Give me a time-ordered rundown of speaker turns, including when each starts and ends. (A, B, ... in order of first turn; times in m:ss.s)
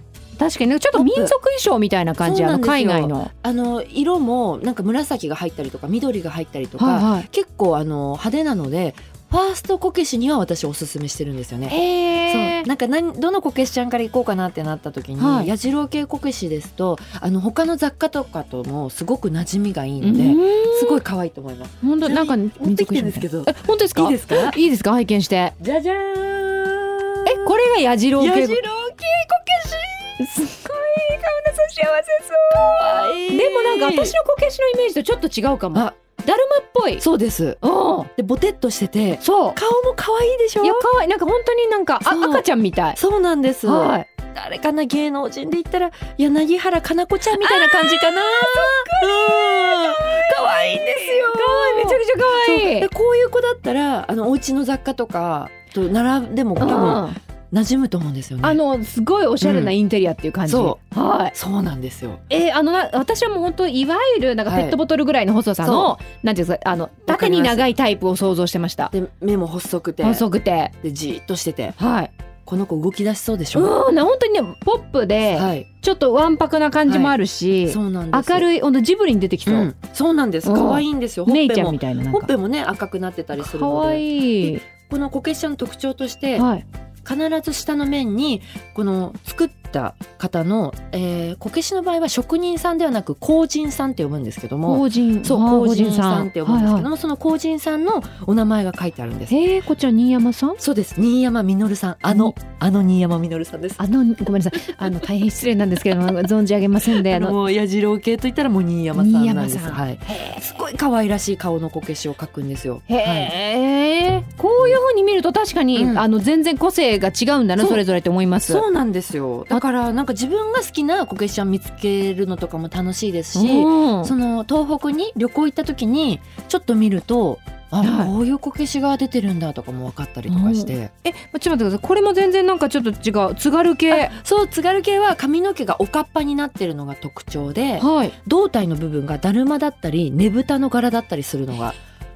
0:00.4-0:03.3 A
0:00.9-0:01.4 B
0:02.2-0:24.6 B
0:06.8-0:07.3 A
0:11.7-0:12.7 A
0:15.2-0:15.5 A
0:20.0-0:21.0 A
0:21.8-0:25.5 A
0:25.6-0:27.6 B
0:27.2-0:28.6 A
0:28.2-0:30.2 B
0:30.2-0:37.0 A
0:32.8-0:34.2 B
0:37.0-0:40.9 B
0:37.6-0:38.1 A
0:39.2-0:39.6 A
0:40.6-0:43.0 A
0:42.0-0:58.6 B
0:43.6-0:44.1 A
0:47.4-0:52.9 A
0:56.6-0:57.2 A
0:58.4-1:01.3 A
0:59.4-0:59.7 B
1:00.4-1:00.8 B
1:01.3-1:02.2 B
1:02.3-1:08.9 A
1:04.4-1:04.8 B
1:05.6-1:05.9 B
1:07.1-1:07.6 B
1:08.9-1:11.8 B
1:10.0-1:10.7 A
1:11.8-1:12.1 A
1:12.4-1:13.8 B
1:13.5-1:19.7 A
1:15.3-1:15.7 B
1:16.8-1:18.5 B
1:19.5-1:26.5 B
1:20.4-1:22.3 A
1:23.4-1:24.6 A
1:26.4-1:26.6 A
1:27.0-1:39.4 B
1:34.6-1:36.9 A
1:39.3-1:40.6 A
1:40.6-1:43.8 B
1:42.1-1:42.4 A
1:43.8-1:47.4 A
1:46.8-1:53.3 B
1:48.9-1:50.4 A
1:52.9-1:58.6 A
1:55.7-1:56.0 B
1:57.6-1:57.8 B
1:58.4-2:10.9 B
2:03.3-2:04.1 A
2:07.8-2:08.1 A
2:10.3-2:14.1 A
2:13.9-2:21.8 B
2:17.8-2:18.1 A